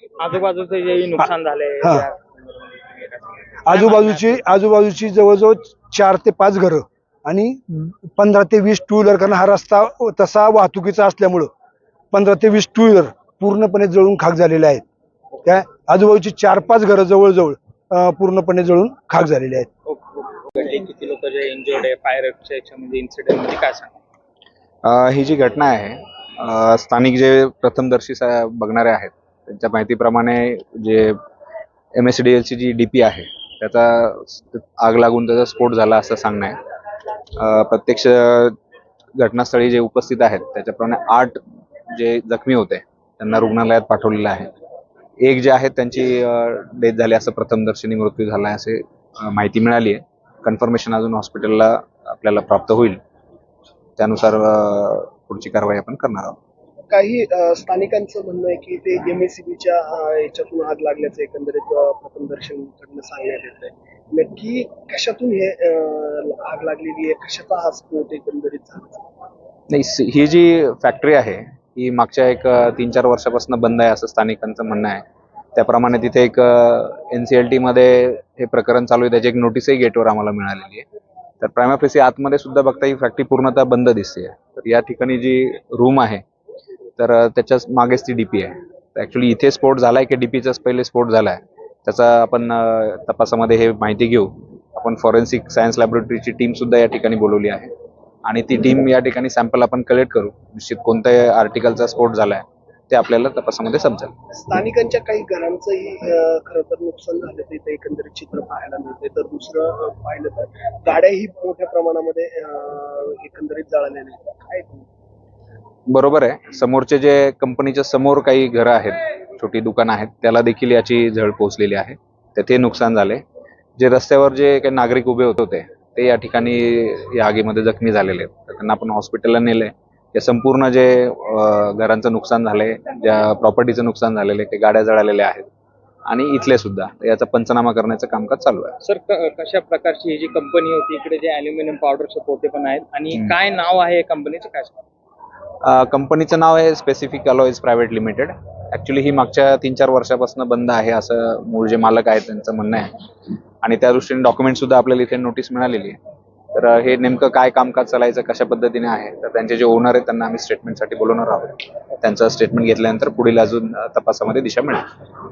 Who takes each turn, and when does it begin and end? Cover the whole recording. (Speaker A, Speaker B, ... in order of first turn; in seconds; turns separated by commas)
Speaker A: 0.2-4.6, Speaker B: 3.6-11.5, Speaker B: 12.1-14.8, Speaker B: 15.4-19.7, Speaker A: 19.9-23.9, Speaker C: 24.8-31.2, Speaker C: 31.9-36.5, Speaker C: 37.4-38.5, Speaker C: 39.2-41.4, Speaker C: 41.9-44.5, Speaker C: 45.2-53.0, Speaker C: 54.0-56.4, Speaker D: 56.9-69.1, Speaker C: 69.7-75.0, Speaker C: 75.5-80.8, Speaker C: 81.4-86.2, Speaker C: 87.0-97.7, Speaker C: 98.2-104.1, Speaker D: 104.3-114.8, Speaker C: 115.9-123.2, Speaker C: 123.8-135.5, Speaker C: 136.1-138.8, Speaker A: 138.8-144.8, Speaker C: 145.6-152.9, Speaker C: 153.6-156.0, Speaker C: 156.5-164.9